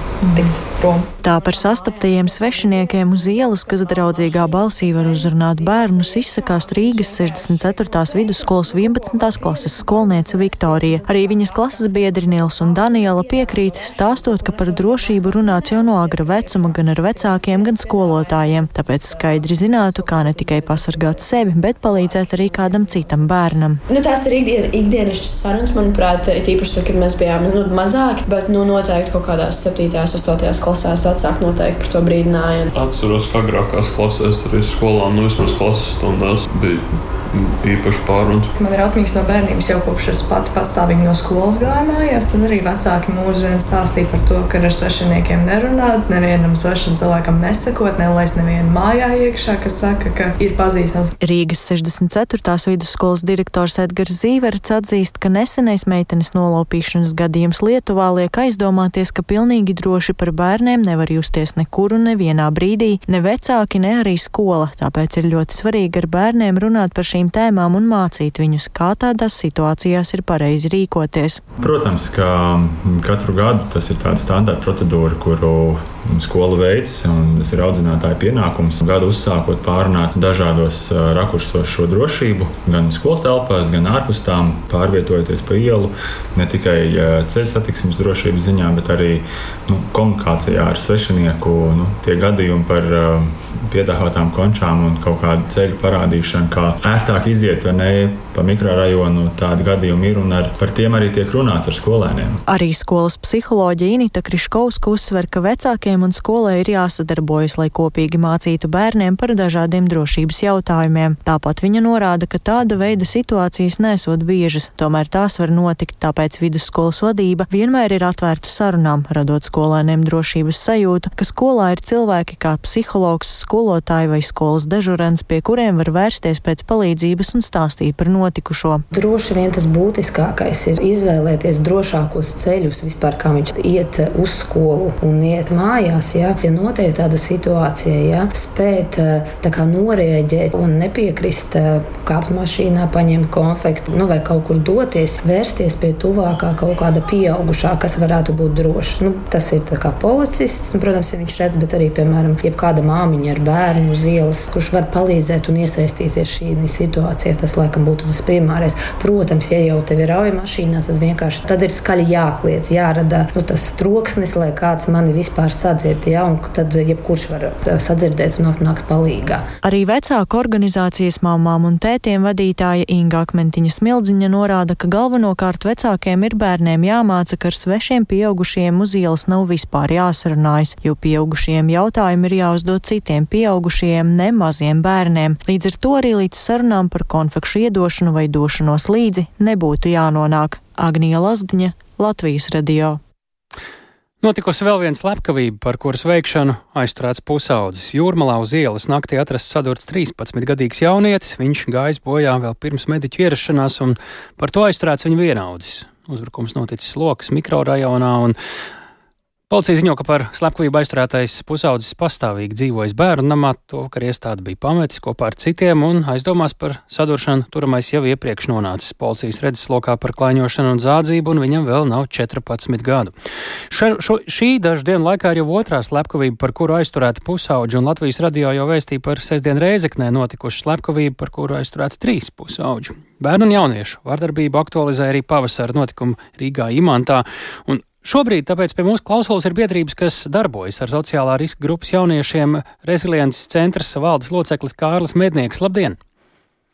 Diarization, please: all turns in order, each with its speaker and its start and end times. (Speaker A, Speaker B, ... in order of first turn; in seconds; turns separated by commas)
Speaker A: 0.2-0.6, Speaker B: 0.3-1.1, Speaker A: 1.2-23.8, Speaker C: 23.9-32.7, Speaker D: 32.8-36.8, Speaker D: 37.4-38.5, Speaker B: 38.6-51.1, Speaker A: 51.2-71.4, Speaker E: 71.7-85.9, Speaker E: 86.4-102.3, Speaker A: 102.5-128.8, Speaker F: 128.9-169.4, Speaker A: 169.6-193.0, Speaker G: 194.2-208.4, Speaker G: 209.5-223.1, Speaker G: 223.7-246.0